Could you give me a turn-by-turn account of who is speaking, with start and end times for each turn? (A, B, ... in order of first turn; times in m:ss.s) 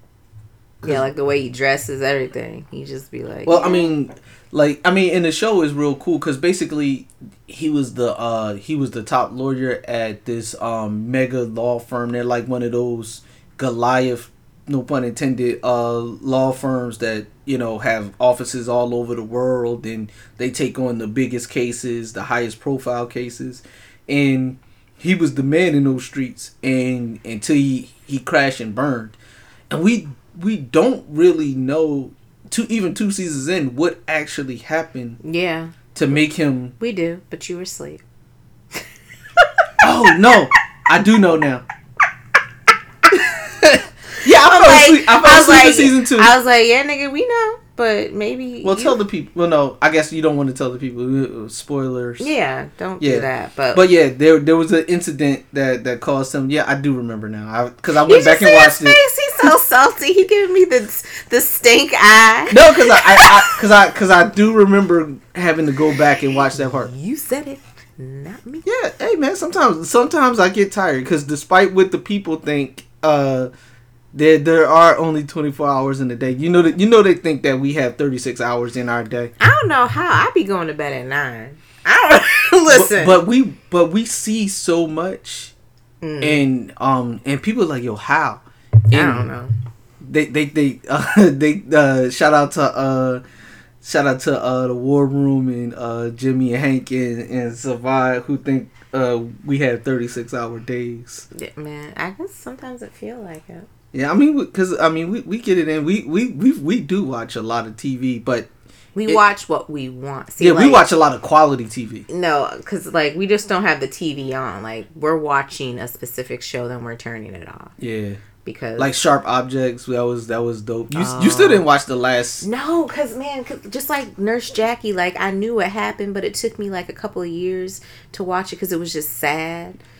0:00.8-0:03.9 A
0:03.4-0:29.2 B
0:29.7-0:35.2 B
0:35.2-0:35.8 A
0:35.9-0:36.8 B
0:36.8-0:38.0 A
0:39.8-0:41.6 B
0:43.1-0:46.3 B
0:44.2-0:49.0 A
0:48.6-0:52.3 B
0:52.2-0:53.8 A
0:53.0-0:59.5 B
0:58.1-1:03.5 A
1:02.5-1:06.9 B
1:06.5-1:08.7 A
1:08.6-1:13.5 B
1:14.1-1:19.3 B
1:19.4-1:23.2 A
1:22.7-1:25.5 B
1:26.0-1:26.4 A
1:26.2-1:29.3 B
1:28.9-1:29.5 A
1:30.0-1:33.2 B
1:33.8-1:41.3 B
1:41.3-1:43.7 A
1:43.9-1:48.5 B
1:49.0-1:50.9 A
1:50.4-1:52.1 B
1:52.1-1:57.7 A
1:57.8-1:58.2 B
1:58.4-1:59.0 A
1:58.8-2:02.5 B
2:00.9-2:01.7 A
2:02.4-2:09.8 A